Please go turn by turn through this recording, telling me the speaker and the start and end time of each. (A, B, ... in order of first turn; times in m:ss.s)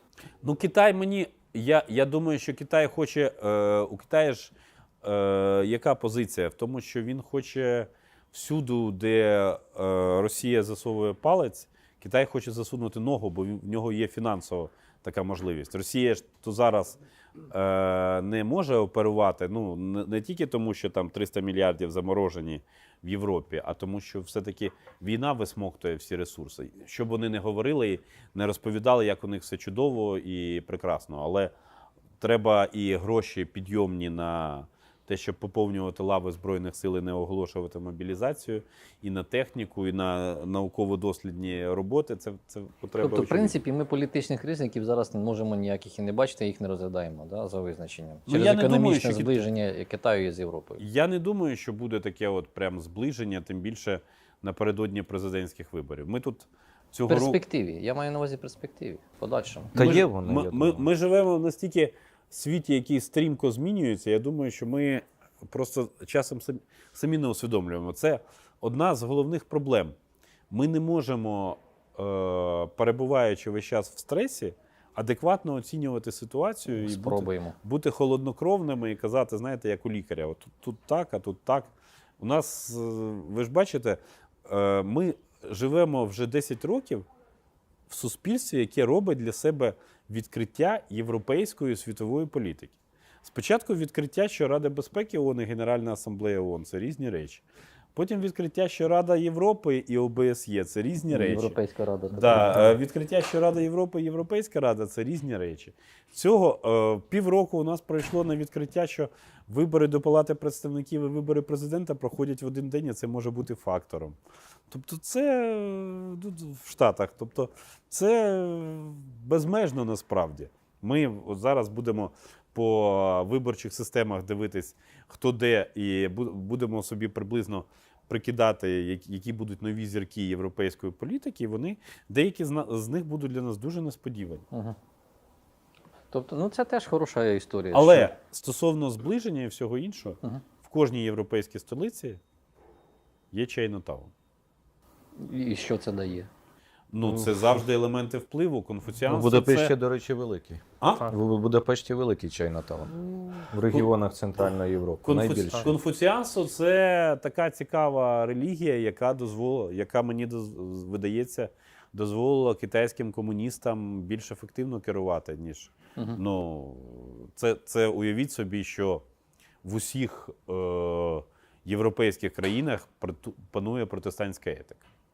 0:00.4-0:31.5 A
0:32.2-0:43.6 A
0:43.0-0:50.8 B
0:48.3-0:49.4 A
0:50.8-0:57.4 A
0:57.1-0:59.7 B
0:59.7-1:00.9 C
0:59.7-1:09.9 A
1:10.5-1:27.0 A
1:16.7-1:17.6 B
1:27.9-1:41.6 A
1:41.1-1:42.8 B
1:42.1-1:54.2 A
1:54.7-2:14.4 A
2:14.5-2:14.8 B
2:16.1-2:18.1 B
2:17.7-2:22.2 A
2:23.3-2:24.1 A
2:25.2-2:26.3 B
2:26.9-2:29.7 A
2:27.0-2:27.4 C
2:29.0-2:35.7 C
2:30.8-2:31.1 A
2:35.0-2:49.0 A
2:49.6-2:54.8 A